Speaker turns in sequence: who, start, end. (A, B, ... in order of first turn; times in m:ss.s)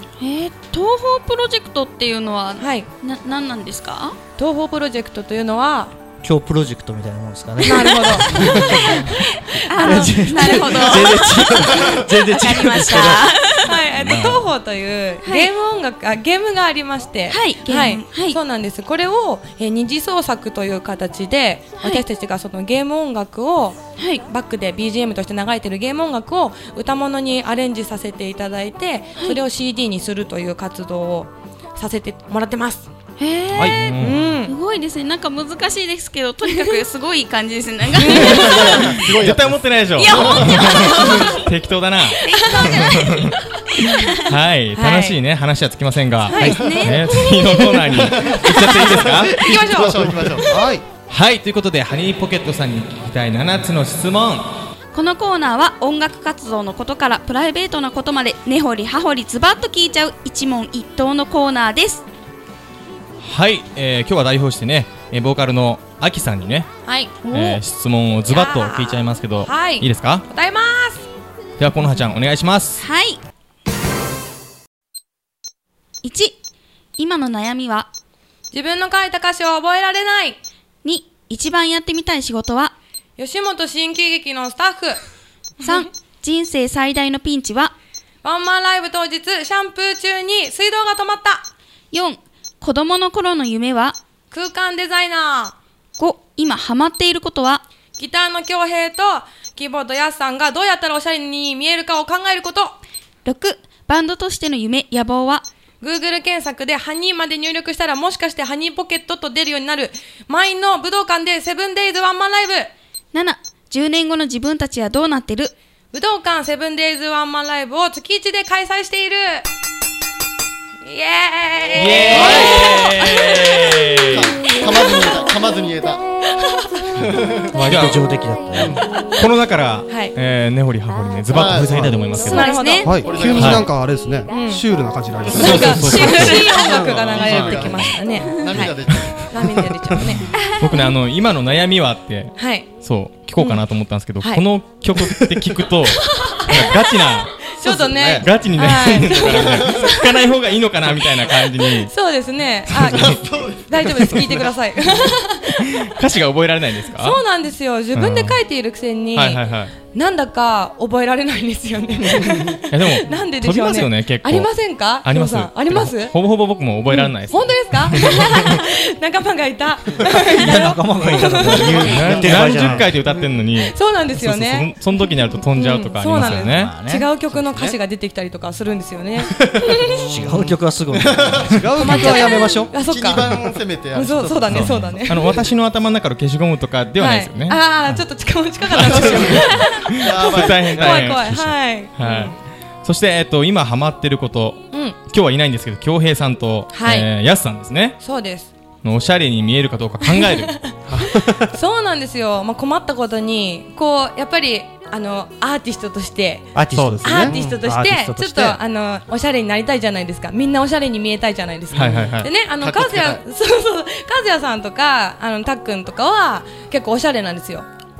0:00.2-0:04.2 A
0:02.6-0:02.9 B
0:04.4-0:05.9 B
0:06.2-0:09.1 C
0:07.6-0:11.3 B
0:08.5-0:13.7 A
0:09.7-0:13.4 C
0:13.6-0:32.9 B
0:13.9-0:14.4 C
0:17.3-0:18.4 A
0:24.0-0:24.2 A
0:33.2-0:39.0 A
0:33.7-0:34.2 D
0:34.0-0:34.5 B
0:36.5-0:36.7 B
0:37.9-0:39.0 B
0:38.0-0:39.6 E
0:38.9-0:43.4 D
0:40.0-0:41.4 A
0:40.2-0:41.1 E
0:40.9-0:41.2 B
0:42.2-0:44.1 A
0:42.3-0:45.2 B
0:44.3-0:49.7 D
0:46.3-0:46.8 B
0:46.3-0:47.9 A
0:46.4-0:46.8 F
0:47.9-0:50.7 E
0:48.1-0:50.4 B
0:49.7-0:50.8 F
0:51.1-0:54.5 D
0:54.9-1:02.0 A
1:03.2-1:06.7 D
1:06.8-1:07.2 B
1:07.2-1:07.6 A
1:07.3-1:10.2 D
1:08.3-1:11.1 B
1:11.6-1:12.8 D
1:12.8-1:13.2 A
1:16.0-1:16.3 A
1:17.0-1:17.9 A
1:18.5-1:20.4 B
1:20.8-1:22.8 A
1:23.2-1:25.0 B
1:25.6-1:27.7 A
1:28.2-1:31.5 B
1:31.9-1:34.0 A
1:34.3-1:35.6 B
1:36.0-1:37.6 A
1:38.0-1:42.8 B
1:43.2-1:45.4 A
1:45.8-1:52.7 B
1:53.1-1:55.5 A
1:55.9-1:59.4 B
2:00.8-2:05.1 B
2:01.7-2:04.3 D
2:02.0-2:03.1 E
2:04.0-2:06.0 E
2:06.4-2:06.8 B
2:07.0-2:07.9 E
2:07.6-2:08.8 C
2:07.6-2:08.1 D
2:08.6-2:08.9 E
2:09.2-2:12.7 D
2:09.9-2:10.1 B
2:11.3-2:11.9 E
2:11.6-2:12.0 F
2:12.1-2:13.2 A
2:12.2-2:13.5 B
2:12.8-2:17.9 F
2:12.9-2:13.7 E
2:13.4-2:13.7 D
2:14.3-2:14.6 B
2:15.2-2:20.4 B
2:15.3-2:16.6 D
2:15.8-2:19.7 E
2:20.3-2:20.9 A
2:20.5-2:27.5 D
2:22.4-2:22.7 B
2:23.4-2:23.6 B
2:24.2-2:24.5 B
2:26.0-2:26.9 B
2:27.6-2:30.1 B
2:27.6-2:28.2 F
2:28.2-2:31.9 D
2:29.2-2:31.3 E
2:31.7-2:35.9 B
2:32.7-2:33.2 D
2:32.8-2:35.0 E
2:35.6-2:37.2 D
2:37.0-2:46.2 B
2:37.9-2:38.4 D
2:39.1-2:39.7 D
2:42.7-2:48.6 D
2:46.9-2:52.3 B
2:50.0-2:52.9 C
2:51.0-2:56.7 D
2:52.1-2:53.4 E
2:52.3-2:52.7 F
2:53.7-2:54.7 B
2:55.6-3:00.0 B
2:56.1-2:57.1 C
2:57.4-2:57.7 F
2:59.7-3:04.7 E
3:00.0-3:01.7 C
3:01.5-3:03.4 F
3:01.8-3:05.4 B
3:04.2-3:04.6 F
3:04.5-3:05.0 C
3:04.6-3:07.6 D
3:07.0-3:12.4 B
3:08.7-3:11.1 E
3:08.8-3:18.0 D
3:14.7-3:15.0 B
3:16.7-3:17.1 B
3:18.0-3:18.5 B
3:18.8-3:20.7 D
3:20.0-3:37.7 B
3:20.9-3:21.5 F
3:26.5-3:27.3 C
3:26.7-3:28.6 F
3:27.2-3:27.6 E
3:27.9-3:28.1 C
3:31.7-3:32.3 D
3:32.5-3:33.2 E